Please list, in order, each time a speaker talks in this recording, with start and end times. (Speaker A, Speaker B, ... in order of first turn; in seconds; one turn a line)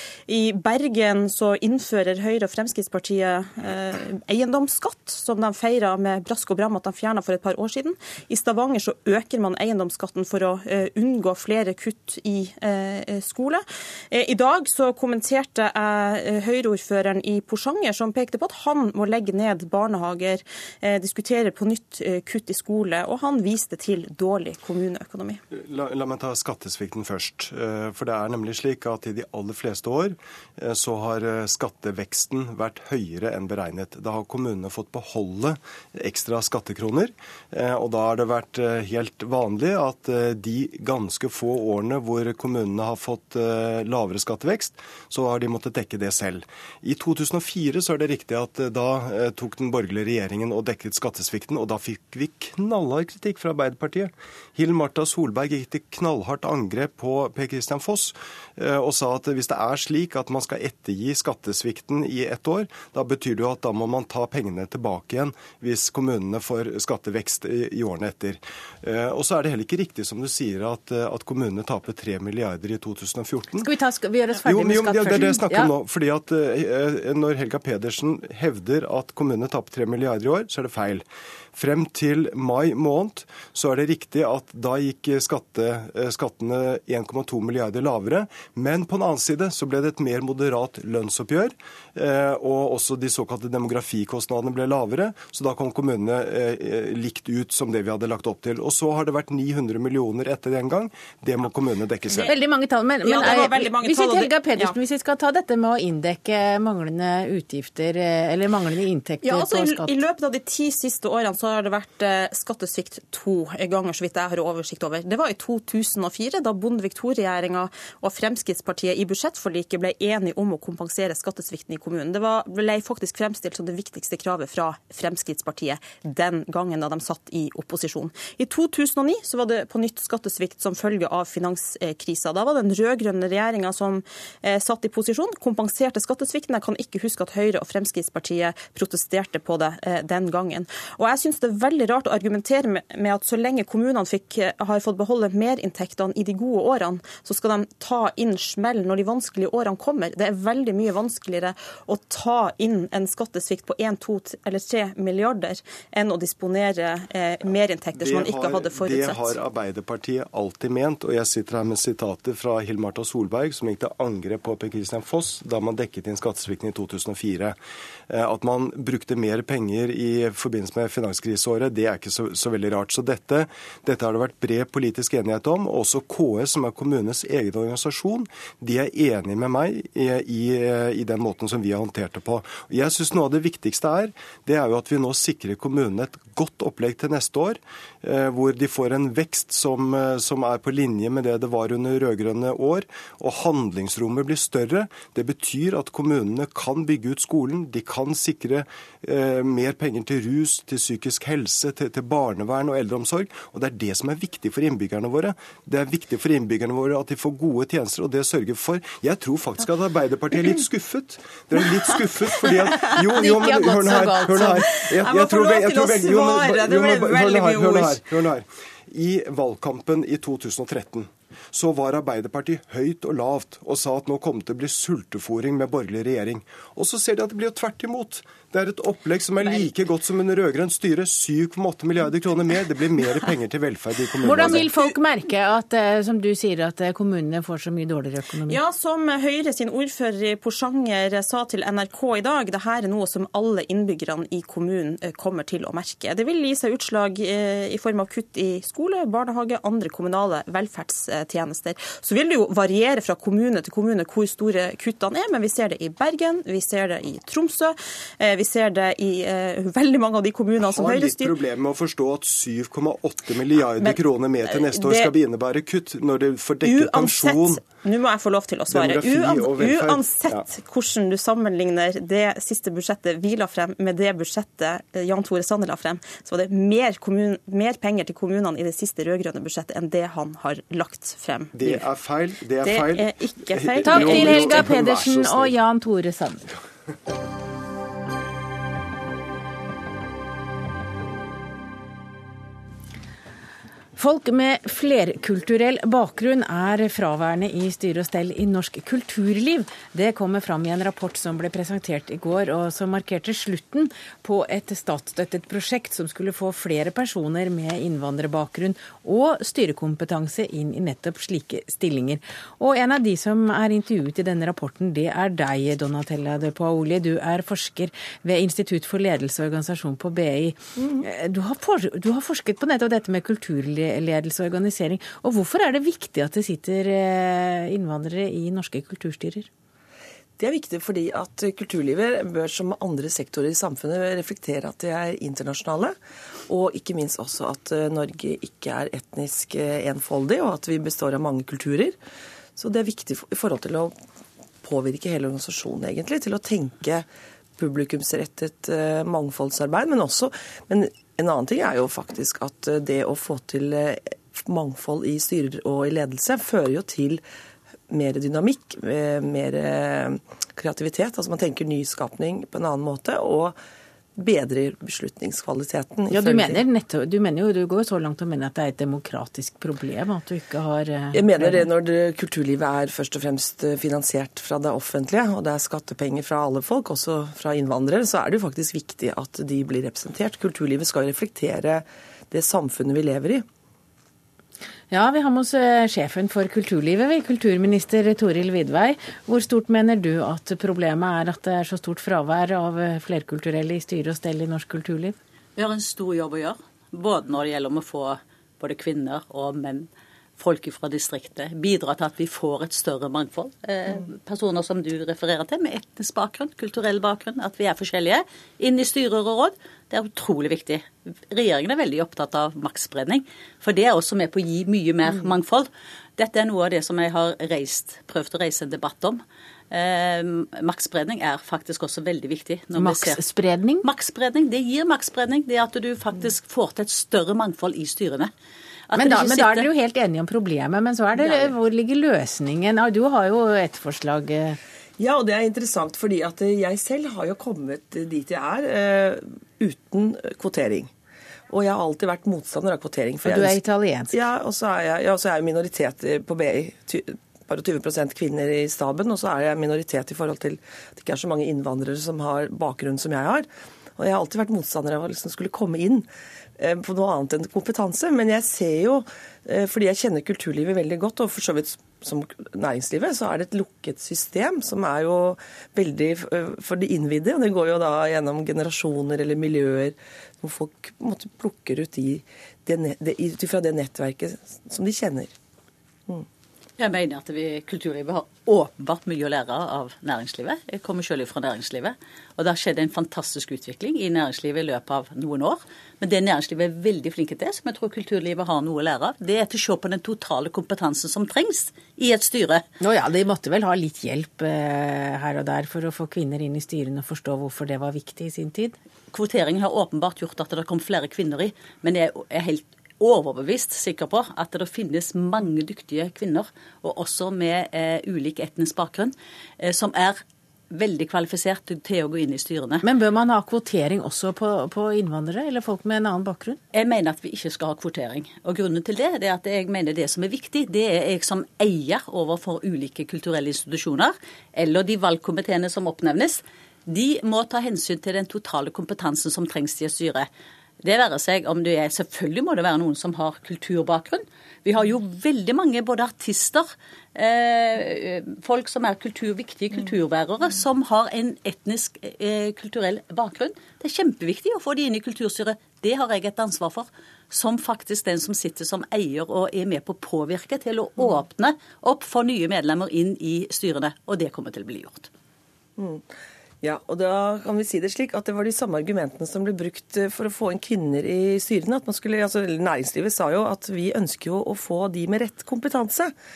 Speaker A: 0.3-25.4
Speaker B: 25.5-73.7
Speaker C: 73.5-75.7
Speaker B: 74.4-102.3
Speaker C: 102.3-110.0
Speaker A: 103.0-104.7
Speaker A: 109.2-159.4
Speaker B: 157.9-167.6
Speaker B: 168.1-234.8
Speaker C: 213.1-214.6
Speaker A: 214.4-218.0
Speaker C: 234.2-238.6
Speaker A: 238.5-261.4
Speaker B: 260.6-267.6
Speaker A: 263.8-265.1
Speaker A: 266.6-281.8
Speaker B: 268.7-270.5
Speaker B: 281.5-285.6
Speaker A: 282.6-284.6
Speaker C: 283.9-286.4
Speaker C: 294.0-329.5
Speaker D: 320.8-321.0
Speaker D: 330.4-336.0
Speaker D: 336.5-342.0
Speaker D: 342.6-343.9
Speaker D: 344.6-347.1
Speaker D: 347.6-357.2
Speaker D: 357.9-363.6
Speaker D: 364.2-366.6
Speaker C: 366.1-371.7
Speaker D: 371.1-383.4
Speaker C: 384.9-395.2
Speaker E: 395.6-423.2
Speaker C: 422.8-423.8
Speaker E: 423.8-428.3
Speaker E: 428.9-429.7
Speaker C: 428.9-434.6
Speaker D: 431.2-431.5
Speaker D: 435.0-440.9
Speaker D: 441.5-456.1
Speaker C: 443.2-444.2
Speaker D: 456.6-475.3
Speaker E: 476.8-492.6
Speaker C: 492.8-498.7
Speaker E: 499.1-510.2
Speaker E: 510.7-512.8
Speaker C: 512.8-516.6
Speaker E: 516.7-530.3
Speaker E: 530.8-555.1
Speaker D: 555.8-556.0
Speaker D: 556.6-566.1